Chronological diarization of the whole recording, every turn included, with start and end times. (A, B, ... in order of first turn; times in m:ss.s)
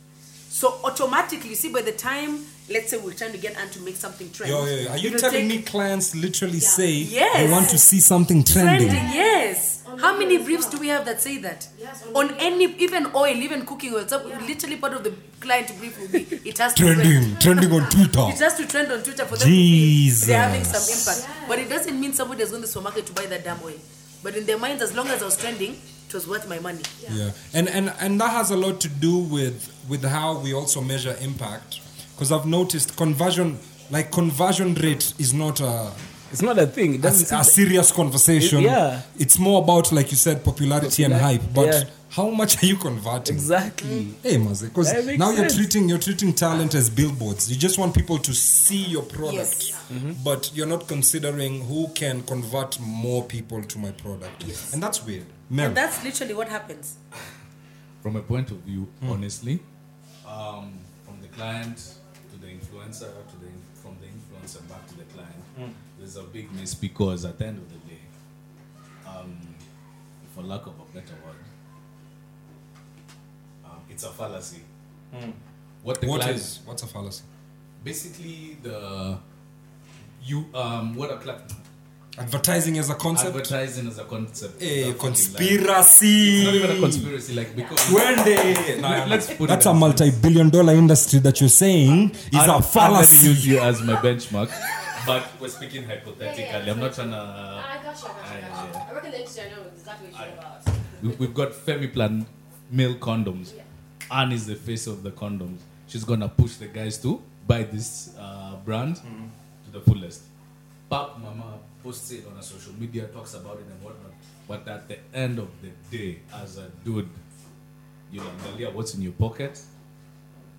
0:00.5-0:05.6 A
0:04.4-0:09.1 B
0:06.6-0:07.8 C
0:07.0-0:07.8 A
0:08.5-0:26.9 A
0:08.8-0:10.9 C
0:11.7-0:12.7 C
0:14.2-0:14.5 C
0:16.7-0:18.4 B
0:17.4-0:18.0 C
0:19.3-0:21.2 B
0:21.1-0:21.8 C
0:27.1-0:36.0 B
0:36.3-0:37.6 D
0:37.0-0:43.6 B
0:38.4-0:39.1 D
0:40.8-0:41.9 D
0:43.2-0:44.2 D
0:43.8-0:44.1 A
0:44.2-0:55.8 B
0:44.8-0:45.7 D
0:49.2-0:49.8 A
0:49.6-0:49.8 C
0:49.9-0:50.2 D
0:54.4-0:54.7 A
0:55.6-0:57.0 A
0:58.0-0:59.6 E
1:00.2-1:08.1 E
1:09.0-1:09.6 E
1:10.2-1:11.5 E
1:13.6-1:14.6 E
1:15.1-1:15.4 B
1:15.8-1:16.5 E
1:16.0-1:17.3 B
1:17.8-1:19.2 E
1:20.2-1:21.6 E
1:22.2-1:23.6 B
1:23.1-1:25.6 E
1:24.6-1:27.1 B
1:26.2-1:30.2 E
1:27.5-1:27.8 C
1:27.8-1:33.8 B
1:32.3-1:38.8 E
1:34.6-1:35.0 C
1:36.2-1:41.3 C
1:40.9-1:43.6 E
1:44.1-1:49.0 E
1:49.0-1:49.3 B
1:49.6-1:50.3 E
1:50.9-1:57.2 E
1:58.1-1:59.6 E